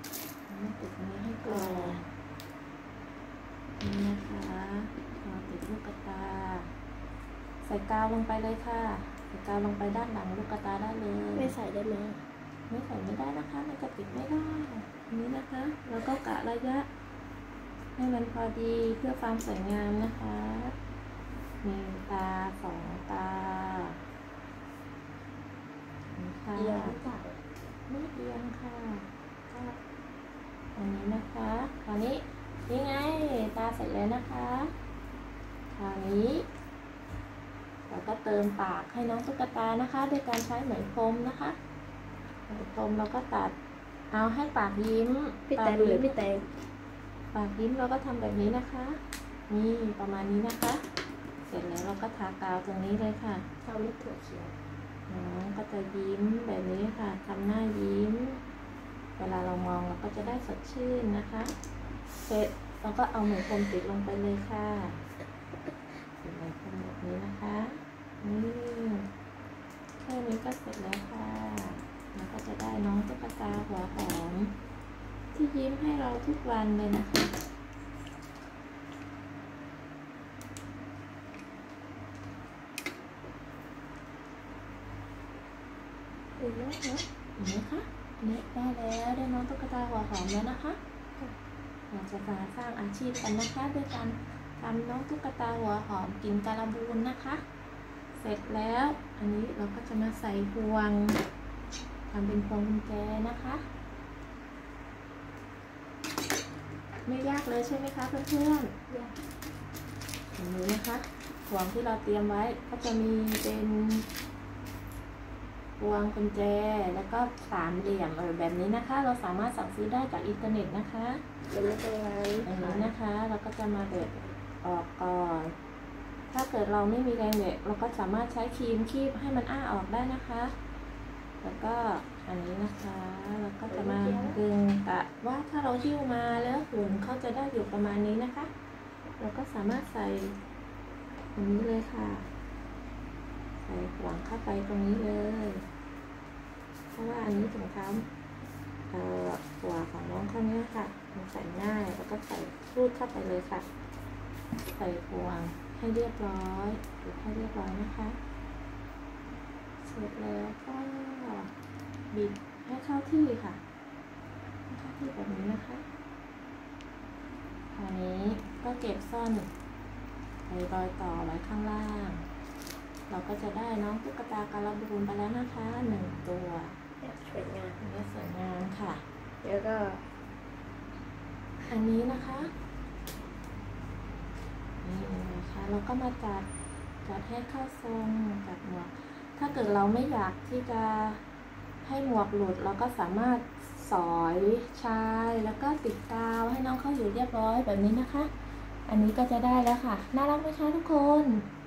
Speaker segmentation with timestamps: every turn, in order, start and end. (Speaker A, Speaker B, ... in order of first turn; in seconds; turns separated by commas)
Speaker A: 0.5-2.1, Speaker B: 1.4-2.0, Speaker A: 3.8-6.7, Speaker A: 7.6-11.6, Speaker B: 11.3-12.2, Speaker A: 12.7-16.9, Speaker A: 18.0-20.8, Speaker A: 21.6-24.0, Speaker A: 26.1-27.0, Speaker B: 26.6-27.4, Speaker A: 27.9-29.8, Speaker A: 30.8-34.7, Speaker A: 35.7-36.5, Speaker A: 37.9-41.6, Speaker A: 42.5-43.5, Speaker A: 44.1-46.2, Speaker B: 45.5-46.5, Speaker A: 47.3-50.8, Speaker A: 51.5-53.5, Speaker B: 53.6-54.5, Speaker A: 55.1-58.4, Speaker A: 59.2-61.5, Speaker A: 62.2-65.0, Speaker A: 66.1-69.1, Speaker A: 70.0-74.5, Speaker A: 75.3-77.3, Speaker B: 86.4-87.0, Speaker A: 87.4-90.8, Speaker A: 91.9-97.4, Speaker A: 98.2-101.2, Speaker A: 102.1-103.7, Speaker A: 107.1-108.8, Speaker A: 110.4-114.1, Speaker A: 115.8-121.2, Speaker B: 121.5-122.9, Speaker A: 122.5-125.5, Speaker B: 123.9-124.2, Speaker A: 126.3-130.5, Speaker A: 131.4-138.5, Speaker B: 133.7-134.4, Speaker A: 139.2-140.4, Speaker A: 141.3-142.3, Speaker A: 143.6-145.6, Speaker A: 146.9-148.1, Speaker A: 148.9-153.7, Speaker A: 154.7-158.2, Speaker A: 159.8-161.5, Speaker A: 162.1-163.6, Speaker A: 164.7-165.8, Speaker A: 167.8-169.5, Speaker A: 170.5-172.2, Speaker A: 173.1-176.8, Speaker B: 177.0-177.8, Speaker A: 177.8-179.0, Speaker B: 179.4-180.0, Speaker A: 181.7-182.5, Speaker A: 184.8-186.5, Speaker A: 187.1-191.2, Speaker A: 191.8-198.3, Speaker A: 198.9-201.5